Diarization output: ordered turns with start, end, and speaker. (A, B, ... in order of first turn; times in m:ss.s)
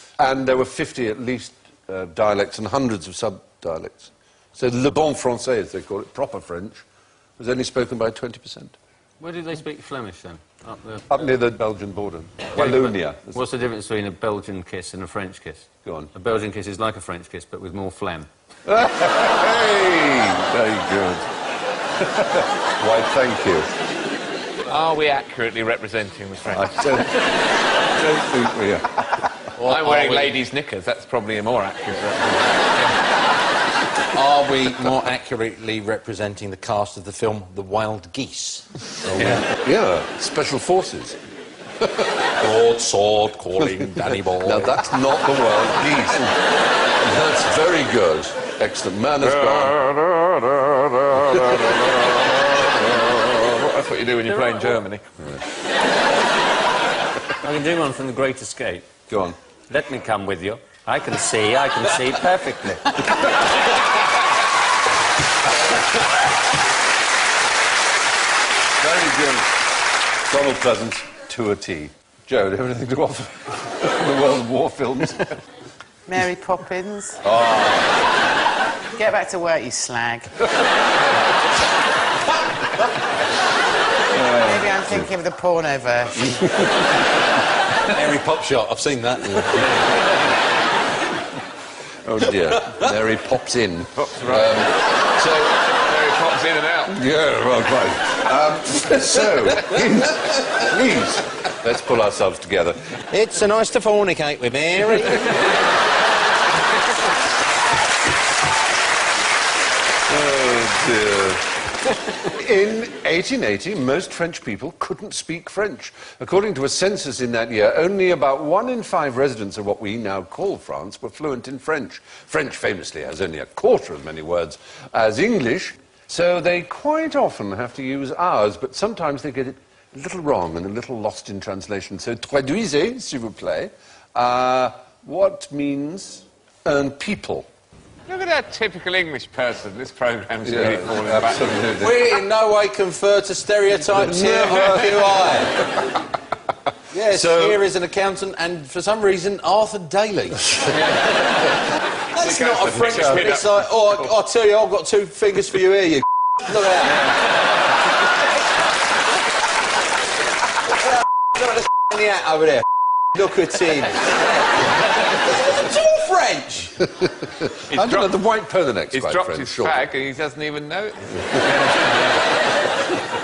0:00.2-0:06.8 A
0:07.4-0:08.8 A
0:09.2-0:11.1 B
0:11.1-0:13.4 A
0:12.6-0:18.3 B
0:15.8-0:16.1 A
0:18.6-0:21.3 A
0:22.0-0:23.7 A
0:24.7-0:27.0 C
0:26.5-0:29.2 A
0:29.6-0:30.3 D
0:29.6-0:32.9 C
0:34.1-0:39.4 D
0:39.4-0:41.2 A
0:41.8-0:42.3 A
0:42.4-0:44.8 D
0:43.6-0:53.4 A
0:49.4-0:49.8 C
0:53.3-0:55.0 C
0:57.4-0:58.9 B
0:59.1-0:59.4 A
0:59.7-1:03.0 B
1:08.8-1:09.6 A
1:10.2-1:15.4 A
1:16.1-1:17.2 E
1:17.2-1:17.9 A
1:19.0-1:20.3 E
1:24.1-1:25.1 A
1:24.3-1:26.5 E
1:26.3-1:26.8 A
1:27.8-1:29.8 D
1:29.3-1:29.7 A
1:32.0-1:35.6 A
1:34.0-1:34.6 C
1:35.7-1:37.0 C
1:36.9-1:43.0 A
1:43.1-1:45.3 D
1:50.0-1:51.5 A
1:52.2-2:17.5 A
2:18.1-2:21.7 C
2:20.4-2:22.1 A
2:21.8-2:25.6 D
2:23.9-2:25.9 A
2:26.9-2:31.0 D
2:27.1-2:27.6 A
2:32.1-2:37.1 D
2:32.2-2:34.1 C
2:41.4-2:44.1 D
2:45.1-2:46.8 D
2:47.0-2:49.8 A
2:47.7-2:48.2 C
2:48.9-2:51.2 C